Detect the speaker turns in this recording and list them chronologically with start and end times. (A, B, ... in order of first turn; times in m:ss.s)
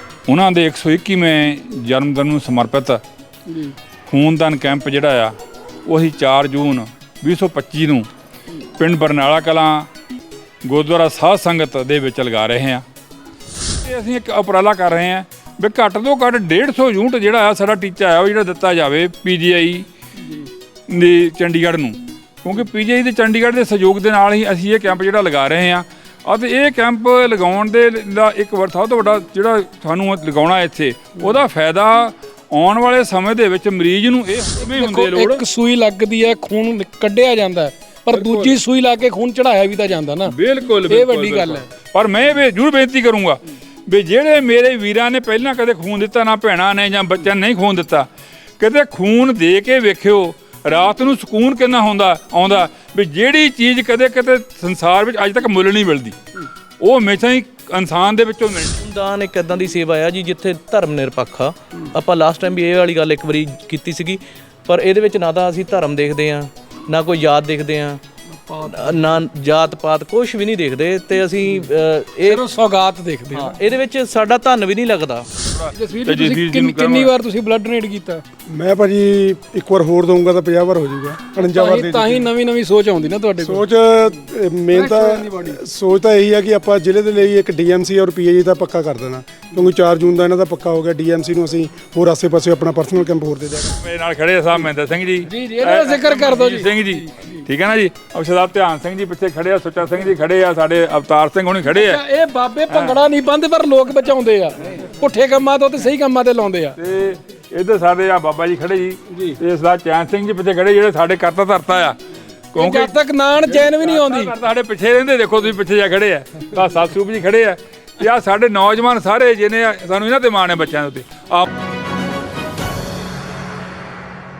0:00.3-0:03.0 A
0:03.5-0:03.8 B
0:04.1-0:08.1 A
0:08.8-0:09.9 A
0:10.6-0:12.8 A
0:13.8-0:19.9 A
0:20.2-0:20.5 B
0:20.9-0:35.4 A
0:34.6-0:40.4 B
0:38.1-0:38.6 A
0:40.2-0:48.1 A
0:40.9-0:41.6 B
0:48.6-0:56.2 A
0:56.8-0:58.8 A
0:58.8-1:08.0 C
1:08.3-1:09.2 B
1:08.6-1:12.4 C
1:12.2-1:13.6 B
1:13.3-1:15.3 C
1:15.4-1:17.1 A
1:15.7-1:18.2 B
1:18.5-1:22.3 D
1:21.4-1:23.6 B
1:23.4-1:33.8 D
1:24.7-1:25.6 B
1:33.7-1:42.0 A
1:35.2-1:37.4 B
1:41.7-1:46.8 B
1:42.7-1:43.0 A
1:46.8-1:52.0 A
1:49.1-1:49.4 B
1:52.5-2:01.5 A
1:52.6-1:54.3 B